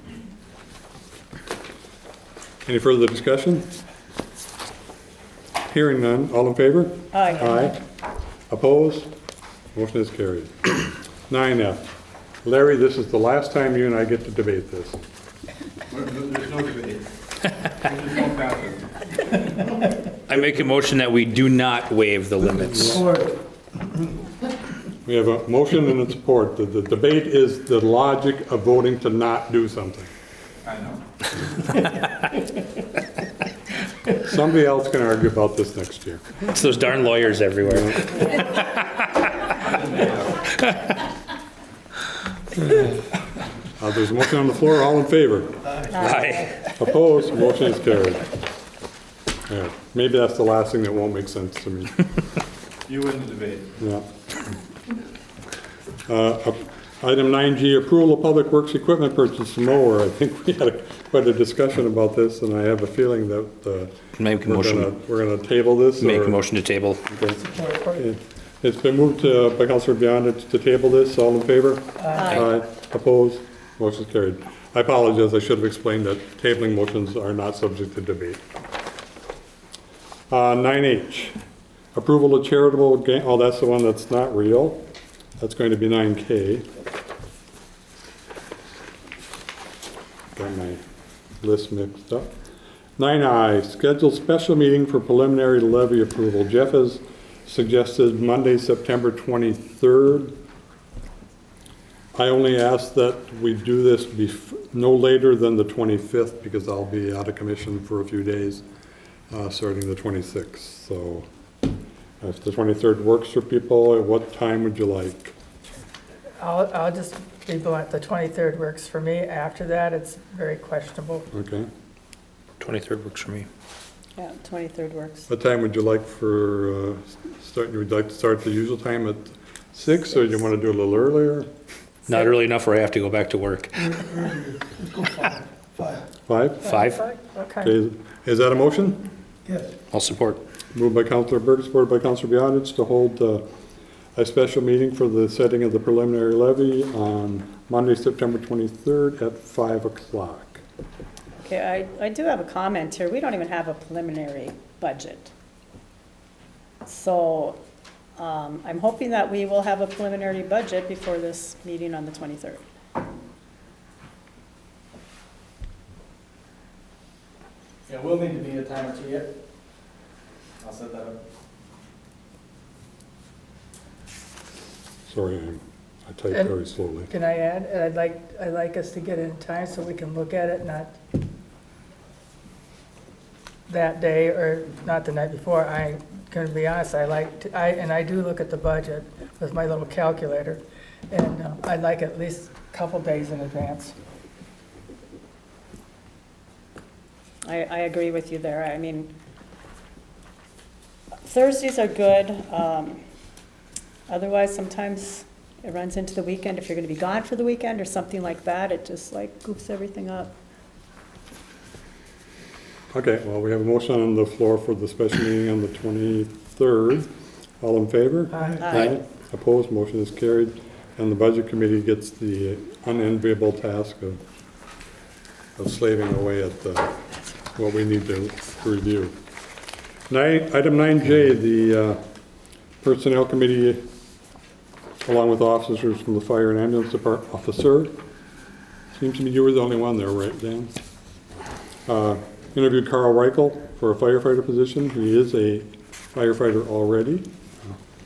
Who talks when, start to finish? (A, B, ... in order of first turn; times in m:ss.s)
0:02.6-0:03.7 A
0:05.7-0:07.8 A
0:07.1-0:07.6 B
0:08.5-0:09.1 A
0:09.7-0:11.9 A
0:12.4-0:15.0 A
0:15.9-0:17.1 C
0:17.8-0:18.8 C
0:20.3-0:23.1 D
0:25.0-0:30.1 A
0:30.6-0:31.0 C
0:34.1-0:36.4 A
0:36.4-0:39.5 D
0:37.6-0:38.2 A
0:39.5-0:40.5 C
0:40.5-0:40.8 D
0:43.8-0:45.6 A
0:45.9-0:46.5 B
0:46.0-0:46.6 D
0:46.7-0:48.3 A
0:49.5-0:52.0 A
0:52.9-0:53.7 C
0:53.8-0:54.1 A
0:56.1-1:06.4 A
1:04.2-1:04.9 D
1:06.0-1:07.0 D
1:07.0-1:18.4 A
1:07.4-1:08.0 E
1:12.1-1:12.5 B
1:20.3-1:21.4 A
1:21.9-1:24.8 A
1:25.4-1:26.7 A
1:30.3-1:30.8 A
1:31.4-1:32.3 A
1:33.0-1:40.3 A
1:42.1-1:48.6 A
1:49.3-1:51.2 A
1:52.2-1:55.3 A
1:56.4-2:01.3 E
2:01.3-2:01.7 A
2:02.6-2:03.5 D
2:04.2-2:05.3 B
2:05.3-2:11.5 A
2:12.1-2:14.3 D
2:13.9-2:16.0 F
2:16.3-2:16.7 A
2:16.6-2:17.7 E
2:16.6-2:17.0 D
2:17.6-2:19.0 A
2:19.9-2:20.4 D
2:20.7-2:23.5 A
2:24.2-2:30.6 A
2:31.4-2:35.3 B
2:36.8-2:37.6 B
2:38.2-2:42.6 B
2:47.9-2:49.3 F
2:50.6-2:51.2 F
2:55.0-2:57.1 A
2:57.1-3:01.0 E
3:03.7-3:13.9 E
3:17.4-3:19.1 B
3:21.2-3:23.0 B
3:24.1-3:30.3 B
3:32.9-3:37.1 A
3:37.6-3:44.2 A
3:38.6-3:38.9 B
3:45.6-3:47.0 A
3:47.5-3:49.2 A
3:50.1-3:52.0 A
3:52.8-3:53.8 A
3:55.0-3:57.9 A
3:58.9-4:00.7 A
4:01.9-4:07.8 A